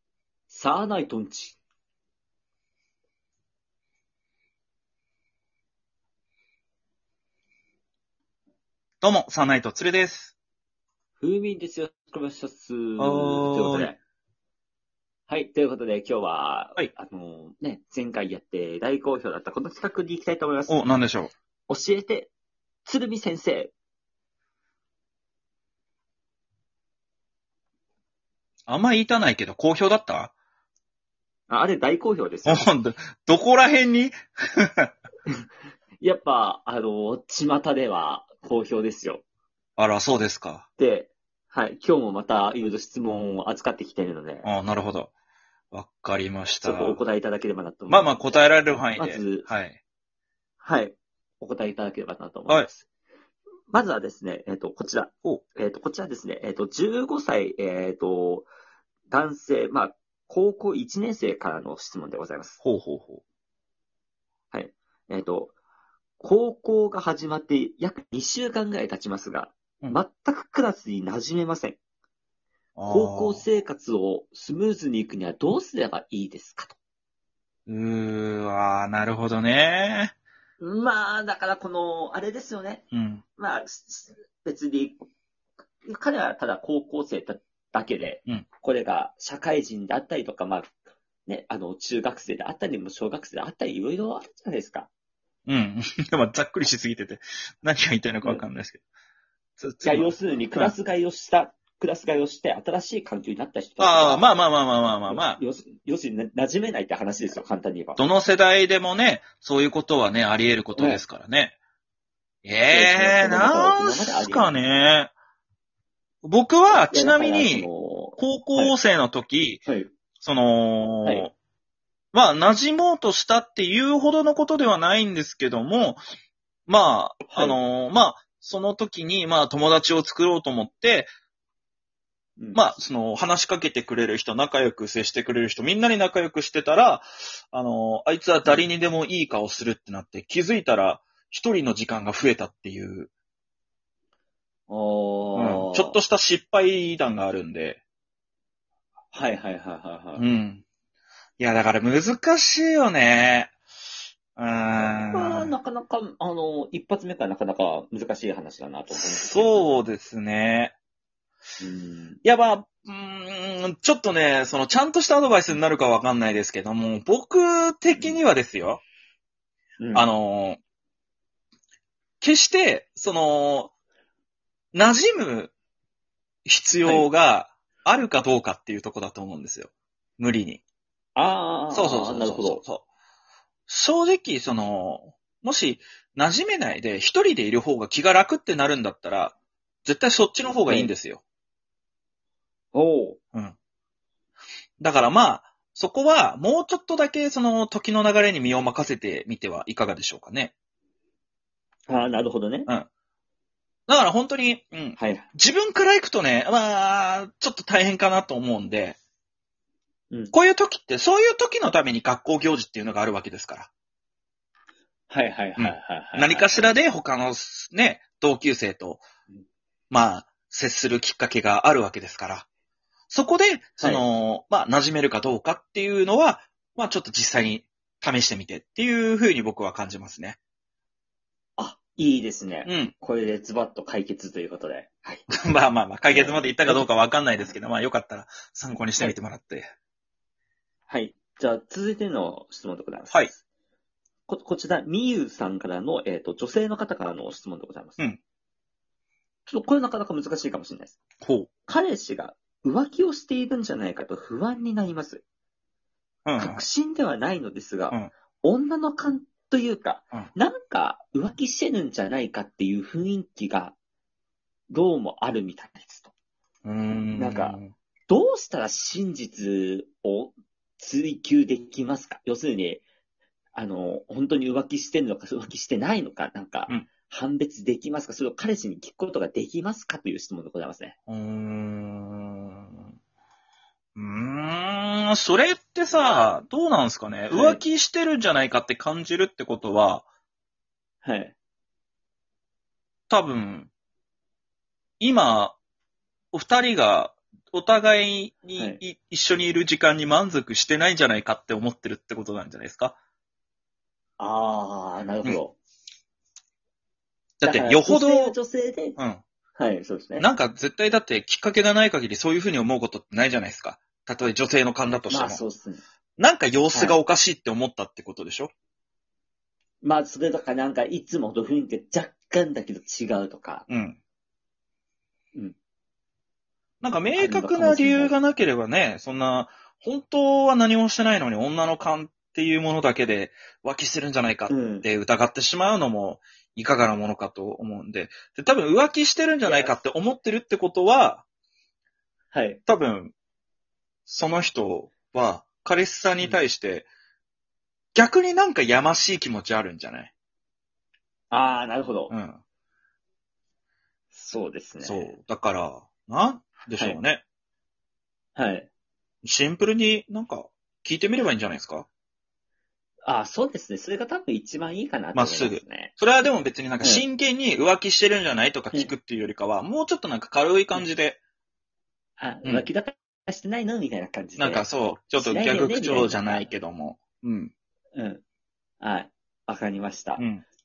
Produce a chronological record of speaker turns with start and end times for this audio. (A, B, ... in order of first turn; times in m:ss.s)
0:00.5-0:01.6 A
0:09.0-0:10.3 B
0:11.2-0:14.0 A
0:13.0-0:13.9 B
0:15.3-0:20.9 A
0:20.7-0:21.3 B
0:21.7-0:22.3 A
0:22.8-0:23.7 A
0:28.7-0:30.3 B
0:31.5-0:32.6 A
0:32.4-0:34.9 B
0:36.0-0:39.2 A
0:39.8-0:40.6 B
0:40.8-0:44.5 A
0:44.4-0:45.1 B
0:45.7-0:47.0 B
0:46.6-0:48.4 A
0:47.9-0:49.8 B
0:48.9-0:49.5 A
0:50.6-0:52.8 A
0:53.7-0:58.5 A
0:59.1-1:02.6 A
1:02.6-1:03.2 B
1:04.5-1:05.5 A
1:06.2-1:11.8 A
1:12.8-1:13.4 B
1:12.9-1:16.8 A
1:17.7-1:20.1 B
1:20.6-1:22.8 A
1:22.9-1:23.2 B
1:23.4-1:25.0 A
1:25.8-1:30.7 A
1:31.3-1:34.9 A
1:35.5-1:38.8 B
1:39.6-1:40.7 B
1:39.8-1:44.3 A
1:43.8-1:45.4 B
1:44.9-1:48.0 A
1:48.0-1:51.6 B
1:50.8-1:51.0 A
1:52.4-1:55.1 B
1:52.7-1:54.6 A
1:56.2-1:59.6 B
1:56.7-1:58.7 A
1:59.6-1:59.9 A
2:00.2-2:01.3 B
2:01.0-2:01.3 A
2:02.1-2:06.0 B
2:06.7-2:11.1 B
2:07.3-2:07.6 A
2:12.5-2:23.1 B
2:24.7-2:26.0 A
2:25.3-2:27.8 B
2:29.1-2:30.2 A
2:30.2-2:30.6 B
2:31.4-2:33.5 B
2:34.4-2:35.5 B
2:34.8-2:39.8 A
2:38.9-2:40.7 B
2:41.6-2:42.2 A
2:42.2-2:48.8 B
2:47.9-2:48.2 A
2:49.8-2:50.1 A
2:49.9-2:50.6 B
2:52.2-2:53.7 B
2:54.7-2:55.5 B
2:56.4-3:00.6 B
3:01.2-3:02.6 A
3:01.7-3:02.8 B
3:03.7-3:11.2 B
3:10.5-3:10.9 A
3:12.7-3:13.2 A
3:14.8-3:20.5 B
3:21.9-3:22.7 A
3:23.9-3:29.0 B
3:25.0-3:25.3 A
3:30.3-3:33.7 B
3:35.1-3:36.7 A
3:35.6-3:39.0 B
3:39.9-3:42.4 B
3:43.1-3:50.4 B
3:51.6-3:55.3 A
3:52.6-3:52.9 B
3:55.3-3:59.7 B
3:56.1-3:57.5 A
4:00.9-4:03.4 A
4:04.3-4:08.1 A
4:09.5-4:11.0 A
4:11.2-4:11.5 B
4:11.7-4:15.2 A
4:16.2-4:16.6 B
4:16.4-4:23.8 A
4:24.7-4:26.1 A
4:26.6-4:27.7 B
4:27.1-4:32.8 A
4:33.5-4:41.0 A
4:41.1-4:42.8 B
4:44.0-4:50.0 B
4:45.9-4:46.4 A
4:47.3-4:47.6 A
4:51.0-4:51.3 A
4:53.1-4:53.7 B
4:55.0-4:55.6 B
4:56.3-5:03.0 B
4:58.6-4:58.8 A
5:04.2-5:05.6 A
5:07.4-5:08.4 B
5:07.4-5:09.0 A
5:09.0-5:09.2 B
5:09.6-5:10.2 A
5:10.2-5:15.4 B
5:15.1-5:15.8 A
5:16.2-5:18.5 B
5:19.8-5:23.7 A
5:23.7-5:24.0 B
5:26.8-5:41.2 B
5:27.2-5:28.2 A
5:34.5-5:34.9 A
5:39.4-5:39.8 A
5:42.3-5:42.6 A
5:42.6-5:43.1 B
5:44.1-5:46.9 B
5:47.9-5:50.1 B
5:51.3-5:52.1 A
5:52.1-5:52.4 B
5:54.1-5:55.1 A
5:54.8-5:57.2 B
5:58.4-5:58.7 A
5:59.2-6:01.9 B
6:03.0-6:06.0 A
6:05.1-6:11.2 B
6:06.8-6:07.0 A
6:12.2-6:16.5 A
6:14.4-6:17.5 B
6:17.9-6:18.2 A
6:18.8-6:20.2 A
6:20.2-6:20.4 B